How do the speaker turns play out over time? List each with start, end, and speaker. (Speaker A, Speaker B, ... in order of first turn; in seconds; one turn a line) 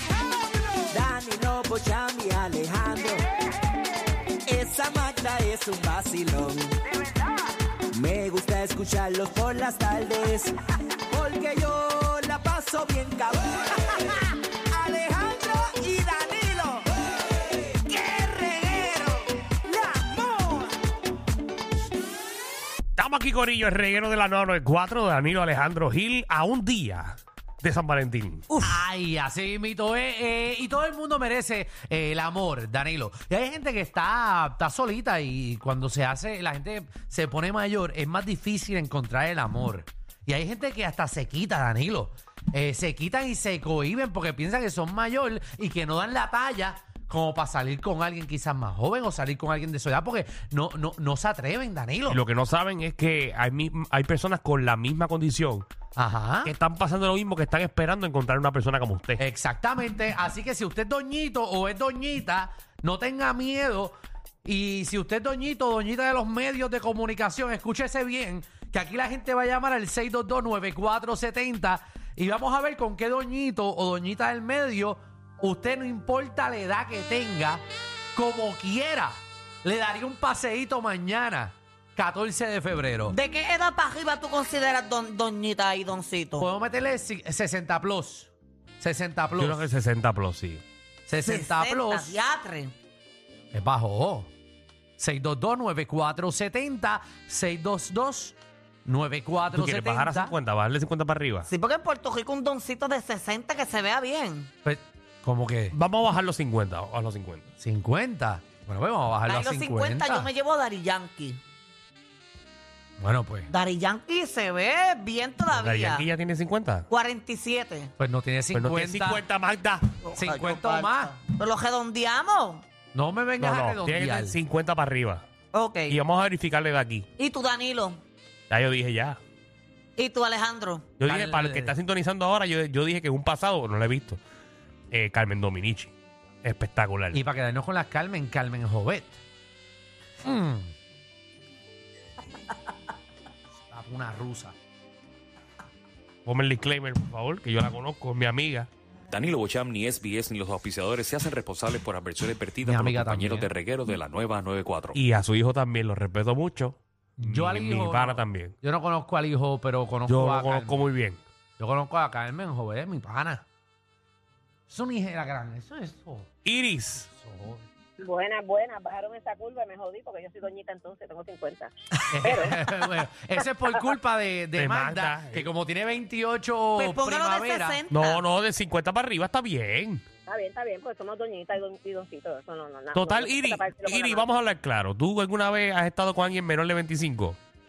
Speaker A: 0.9-3.2
Speaker A: 4.5-6.7
Speaker A: 7.9-10.5
Speaker A: 11.1-14.1
Speaker A: 14.7-16.9
Speaker A: 17.8-20.7
Speaker B: 22.9-28.5
Speaker C: 28.6-52.2
Speaker B: 52.1-55.7
Speaker C: 56.0-56.5
Speaker B: 56.4-59.2
Speaker C: 59.2-63.9
Speaker C: 64.4-77.6
Speaker C: 78.1-83.2
Speaker D: 83.1-86.5
Speaker C: 86.4-89.7
Speaker B: 89.3-90.6
Speaker C: 91.1-92.2
Speaker D: 91.2-92.7
Speaker C: 93.5-94.3
Speaker C: 95.0-100.3
Speaker B: 99.5-101.5
Speaker D: 101.5-104.5
Speaker C: 104.6-105.8
Speaker B: 105.7-107.5
Speaker C: 107.6-110.3
Speaker D: 109.3-111.4
Speaker C: 113.0-113.5
Speaker D: 113.5-116.0
Speaker B: 115.5-116.9
Speaker D: 116.9-117.9
Speaker C: 118.0-119.2
Speaker B: 118.5-119.9
Speaker D: 120.0-122.6
Speaker C: 120.1-121.2
Speaker C: 122.9-124.4
Speaker B: 123.4-125.2
Speaker D: 125.5-126.0
Speaker B: 125.9-127.1
Speaker D: 127.2-128.0
Speaker B: 128.5-129.2
Speaker D: 130.0-130.9
Speaker B: 131.0-134.2
Speaker C: 131.0-131.7
Speaker B: 134.9-137.2
Speaker C: 137.1-139.2
Speaker C: 140.2-140.7
Speaker C: 143.7-144.5
Speaker B: 146.2-148.7
Speaker E: 149.2-152.4
Speaker C: 152.6-153.5
Speaker E: 153.3-154.8
Speaker B: 154.9-158.5
Speaker C: 157.2-160.8
Speaker B: 160.1-161.2
Speaker C: 161.6-163.4
Speaker C: 164.7-166.3
Speaker B: 166.4-167.1
Speaker C: 167.1-167.7
Speaker F: 168.0-172.6
Speaker C: 172.1-177.8
Speaker B: 174.6-175.5
Speaker D: 176.8-178.2
Speaker B: 177.9-180.0
Speaker F: 180.3-184.3
Speaker B: 182.9-187.4